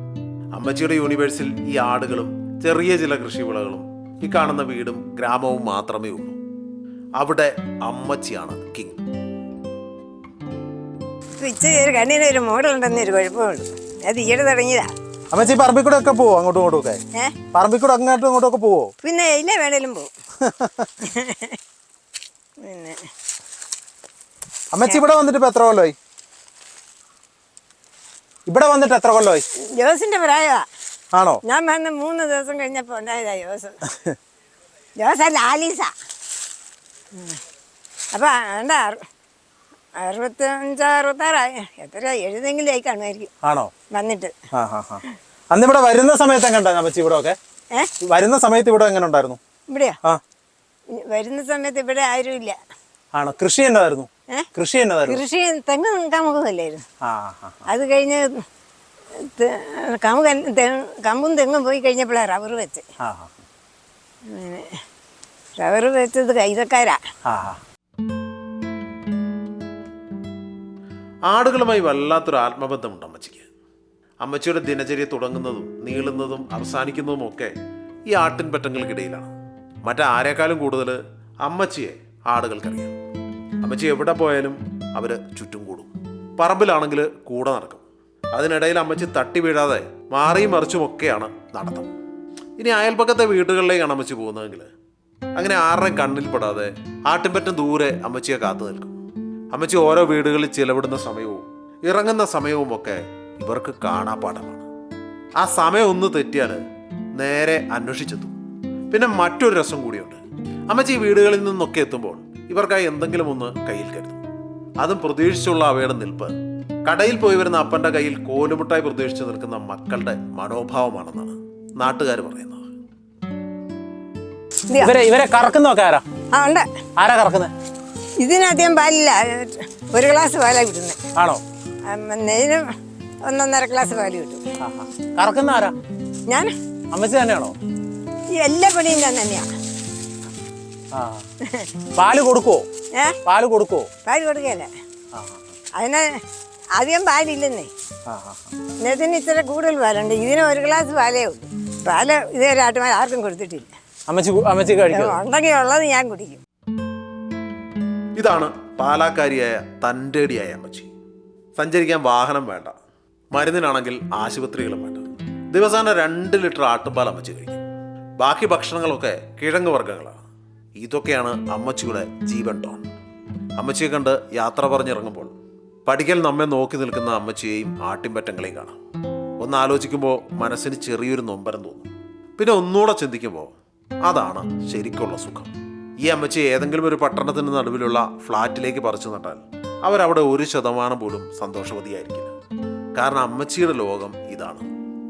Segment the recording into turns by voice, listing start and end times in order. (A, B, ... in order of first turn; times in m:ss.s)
0:00.5-0:06.4 A
0:07.2-0:09.0 A
0:11.4-0:14.9 B
0:15.3-0:17.0 C
0:17.5-0:18.9 C
0:19.0-0:20.1 B
0:20.4-0:20.9 C
0:21.0-0:21.6 B
0:22.6-0:23.0 B
0:24.7-0:26.0 C
0:28.5-0:29.4 C
0:29.7-0:30.7 B
0:31.1-0:31.4 C
0:31.5-0:33.8 B
0:35.0-0:35.9 B
0:38.1-0:39.0 B
0:40.0-0:43.3 B
0:43.4-0:43.7 C
0:44.0-0:44.3 B
0:44.5-0:47.4 C
0:48.0-0:49.4 C
0:49.7-0:50.0 B
0:51.0-0:52.6 B
0:53.1-0:55.2 C
0:55.1-0:56.8 B
0:57.0-0:57.6 C
0:57.7-0:58.2 B
0:59.3-1:02.8 B
1:03.0-1:03.4 C
1:04.3-1:04.8 B
1:05.6-1:07.0 B
1:07.3-1:07.6 C
1:11.3-1:13.5 A
1:14.2-1:17.5 A
1:18.1-1:19.3 A
1:19.8-1:22.9 A
1:23.6-1:27.8 A
1:28.4-1:31.9 A
1:32.6-1:34.7 A
1:35.4-1:38.9 A
1:39.5-1:44.6 A
1:45.4-1:46.6 A
1:47.2-1:48.3 A
1:48.9-1:54.2 A
1:54.8-1:56.3 A
1:56.9-2:02.6 A
2:04.8-2:06.0 C
2:06.3-2:06.7 B
2:07.0-2:07.5 C
2:08.2-2:11.0 B
2:11.2-2:11.4 C
2:11.9-2:12.6 B
2:13.3-2:14.4 B
2:14.6-2:15.8 C
2:16.9-2:17.6 C
2:18.4-2:19.5 B
2:20.9-2:21.2 C
2:22.0-2:22.6 C
2:23.2-2:23.9 C
2:24.1-2:24.7 B
2:25.2-2:25.4 C
2:25.8-2:26.0 B
2:26.8-2:27.7 B
2:28.1-2:28.5 C
2:28.8-2:33.7 B
2:34.1-2:35.2 C
2:34.9-2:36.4 B
2:38.2-2:40.9 A
2:41.6-2:42.8 A
2:43.3-2:47.6 A
2:48.2-2:50.2 A
2:50.8-2:52.8 A
2:53.6-2:55.3 A
2:55.9-2:58.8 A
2:59.4-3:03.5 A
3:04.0-3:05.5 A
3:06.0-3:12.3 A
3:13.0-3:14.7 A